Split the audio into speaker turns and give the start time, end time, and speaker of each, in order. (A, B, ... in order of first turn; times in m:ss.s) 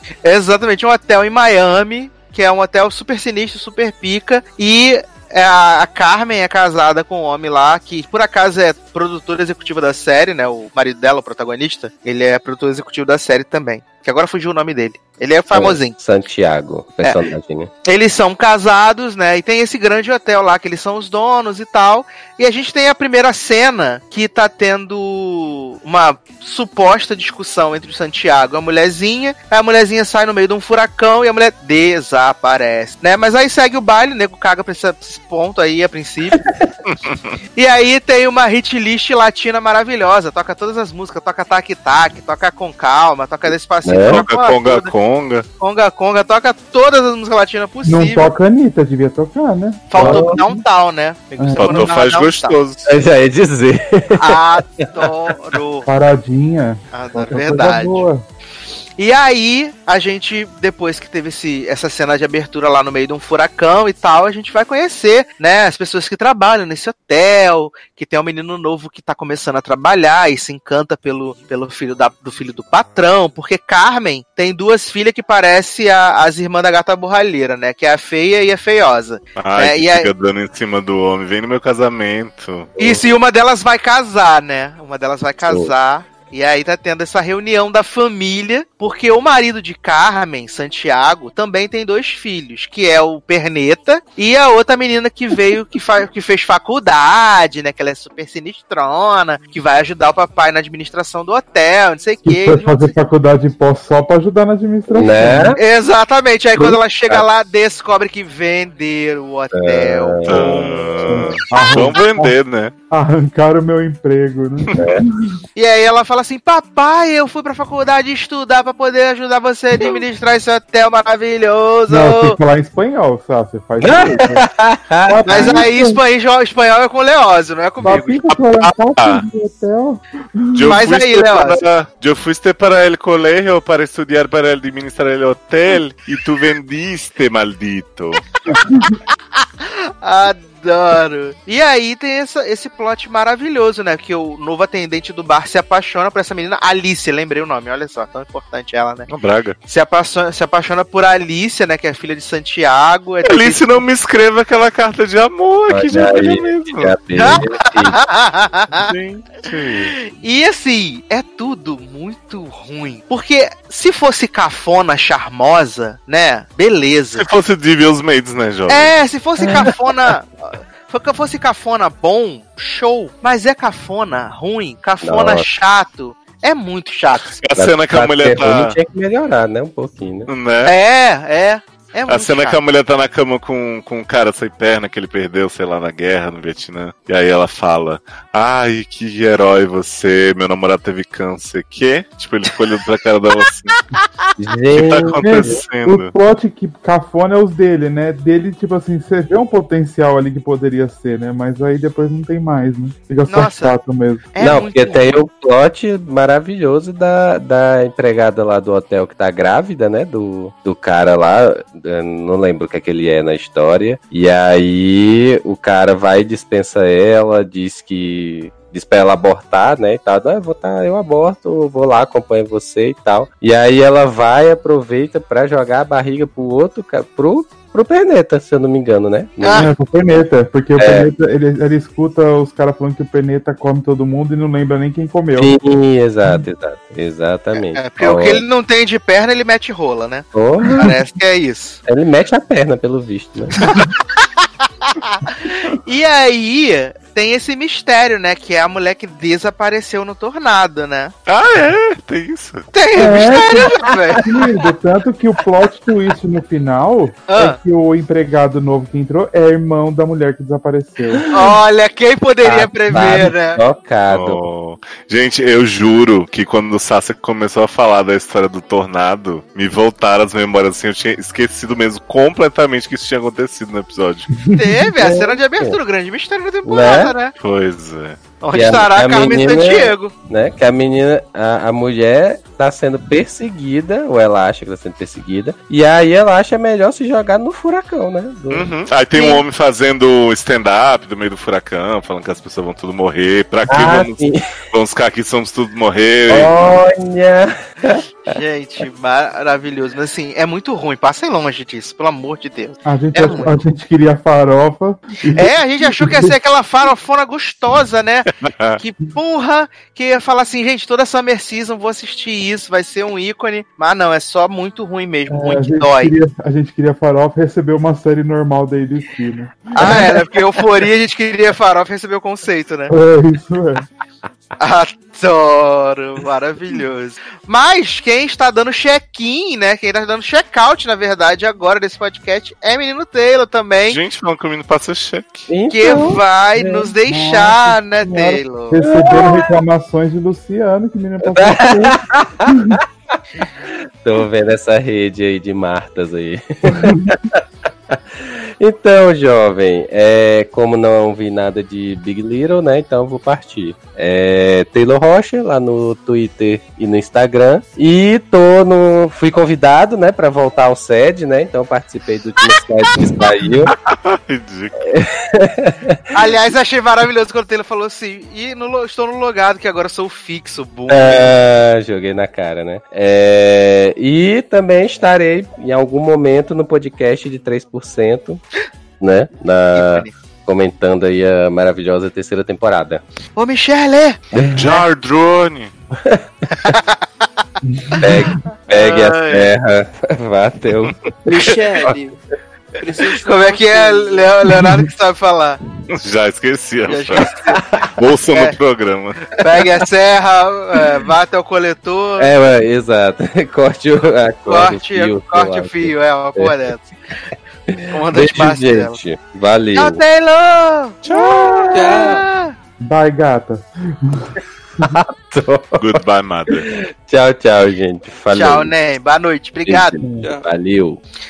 0:00.2-0:16.0 A
0:15.5-0:17.7 B
0:17.0-0:17.3 A
0:17.8-0:36.4 A
0:36.4-0:36.7 B
0:36.9-0:37.2 C
0:37.6-0:44.9 A
0:43.8-0:44.2 B
0:44.1-0:45.5 C
0:45.6-0:48.3 A
0:47.8-0:50.6 D
0:49.9-0:52.6 A
0:50.0-0:50.4 B
0:51.4-0:51.9 D
0:51.6-0:52.8 C
0:52.9-0:54.8 B
0:54.2-0:55.9 A
0:55.9-0:58.2 D
0:56.9-0:58.1 A
0:59.0-1:20.1 A
1:19.4-1:22.8 C
1:22.8-1:23.0 B
1:22.8-1:42.9 A
1:25.5-1:25.7 B
1:42.2-1:45.6 D
1:44.9-1:45.6 B
1:45.6-1:50.7 A
1:46.6-1:47.2 B
1:49.5-1:50.8 B
1:50.3-1:52.7 C
1:50.4-1:52.3 D
1:51.5-1:51.8 A
1:52.9-1:55.3 D
1:55.6-2:02.4 A
2:01.9-2:04.4 D
2:03.8-2:05.6 B
2:05.1-2:06.0 D
2:05.3-2:08.7 A
2:07.8-2:10.8 D
2:09.0-2:09.2 C
2:10.5-2:18.6 C
2:10.6-2:11.6 A
2:18.5-2:18.9 D
2:19.6-2:29.1 A
2:29.1-2:29.6 C
2:29.7-2:33.8 A
2:33.2-2:37.0 C
2:35.7-2:38.0 B
2:37.2-2:38.9 A
2:38.8-2:40.0 C
2:40.2-2:47.3 A
2:47.2-2:49.0 C
2:48.7-2:57.4 A
2:55.0-2:55.4 B
2:57.4-2:58.8 C
2:57.6-3:00.3 B
3:00.3-3:00.7 C
3:00.6-3:02.6 A
3:02.1-3:13.8 C
3:14.4-3:15.6 B
3:14.7-3:16.1 C
3:14.8-3:24.3 D
3:23.3-3:23.8 A
3:24.4-3:25.1 A
3:24.4-3:49.7 B
3:49.4-3:49.7 A
3:49.5-3:55.6 D
3:50.8-3:51.1 B
3:55.4-3:58.4 B
3:57.6-4:01.8 A
4:00.3-4:01.0 B
4:00.6-4:00.9 D
4:01.9-4:03.6 B
4:04.9-4:11.1 A
4:11.3-4:12.7 C
4:12.7-4:14.3 A
4:13.0-4:21.3 D
4:13.6-4:14.2 B
4:17.3-4:17.6 A
4:21.3-4:23.6 A
4:22.4-4:24.4 B
4:24.1-4:34.3 C
4:34.4-4:34.9 D
4:34.6-4:37.3 A
4:35.0-4:35.8 B
4:36.6-4:37.2 B
4:37.4-4:38.4 C
4:38.4-4:40.1 A
4:38.5-4:48.7 B
4:48.5-4:54.2 C
4:49.1-4:49.4 A
4:53.7-4:54.5 B
4:54.7-4:56.6 C
4:56.3-4:58.0 B
4:58.3-5:03.6 A
5:02.8-5:06.4 D
5:05.4-5:16.1 A
5:08.4-5:08.8 C
5:15.3-5:20.1 D
5:19.8-5:22.9 A
5:22.9-5:23.9 D
5:24.6-5:34.0 A
5:33.9-5:35.5 C
5:35.5-5:36.9 B
5:35.7-5:38.8 A
5:37.0-5:42.8 D
5:38.8-5:39.6 B
5:41.2-5:42.8 B
5:43.7-6:03.7 B
5:46.7-5:47.1 D
6:03.7-6:04.8 C
6:04.8-6:06.0 B
6:06.1-6:11.3 A
6:10.9-6:18.4 B
6:19.0-6:23.0 B
6:19.8-6:20.1 A
6:23.4-6:24.2 A
6:24.3-6:24.8 B
6:24.6-6:25.7 C
6:26.7-6:27.0 A
6:27.7-6:28.4 D
6:28.0-6:31.5 B
6:28.7-6:29.5 A
6:31.3-6:32.2 E
6:32.8-6:34.3 E
6:33.2-6:35.6 A
6:34.6-6:34.8 D
6:35.9-6:37.4 C
6:36.9-6:37.8 A
6:38.0-6:39.3 C
6:38.3-6:38.6 A
6:39.4-6:42.3 A
6:42.2-6:46.6 B
6:44.5-6:46.9 A
6:47.7-6:50.0 B
6:47.9-6:49.0 A
6:49.8-6:52.5 A
6:51.0-6:51.7 C
6:51.1-6:52.2 B
6:51.7-6:52.2 E
6:52.8-6:55.0 D
6:54.8-6:56.0 B
6:55.8-6:56.7 C
6:56.5-6:58.8 B
6:58.3-7:00.0 A
6:59.7-7:01.0 B
7:00.0-7:00.3 D
7:00.2-7:00.5 E